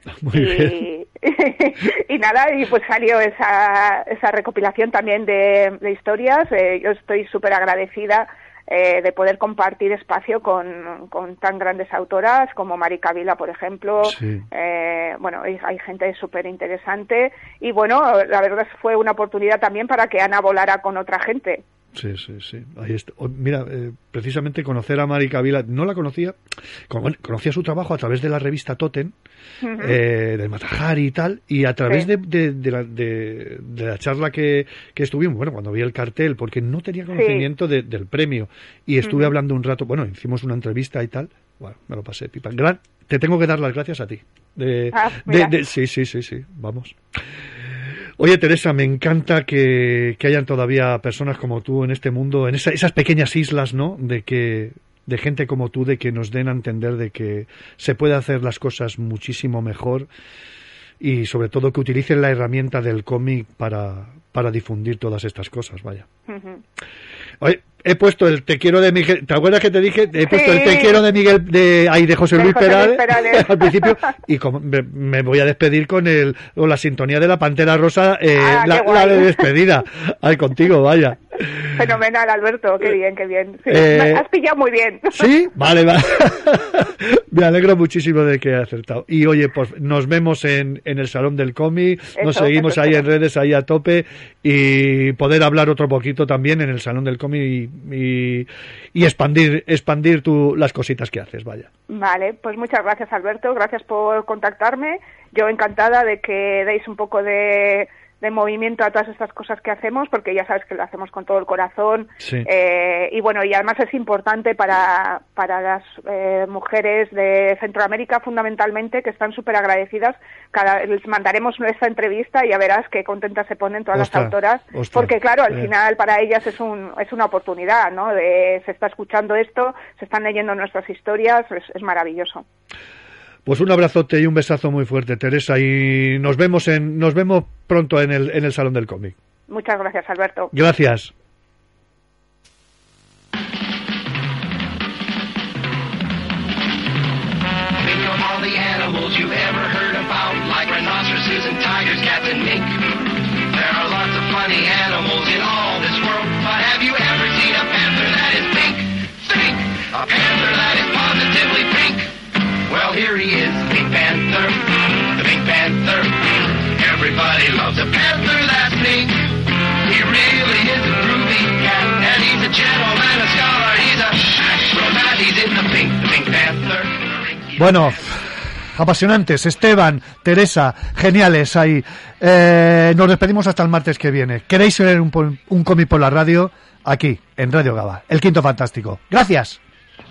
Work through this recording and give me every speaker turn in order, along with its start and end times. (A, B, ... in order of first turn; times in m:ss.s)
0:00.2-0:00.8 A
0:00.3-0:21.6 B
0:14.0-0:14.4 A
0:21.9-0:26.4 A
0:26.9-0:29.1 A
0:29.6-0:30.0 B
0:29.8-0:47.0 A
0:37.1-0:37.5 B
0:39.0-0:39.3 B
0:44.9-0:45.5 B
0:48.2-1:00.1 A
1:01.0-1:06.0 A
1:06.3-1:06.6 B
1:07.4-1:21.8 A
1:10.2-1:11.0 B
1:12.3-1:14.0 B
1:18.3-1:19.5 B
1:21.8-1:25.3 B
1:23.7-1:24.2 A
1:25.1-1:41.7 A
1:32.2-1:33.0 B
1:41.9-2:12.4 B
1:52.2-1:52.5 A
2:03.9-2:05.7 A
2:13.4-2:19.2 A
2:19.5-2:20.5 B
2:20.5-2:21.1 A
2:27.8-2:42.1 C
2:42.6-2:57.6 C
2:57.5-3:09.6 A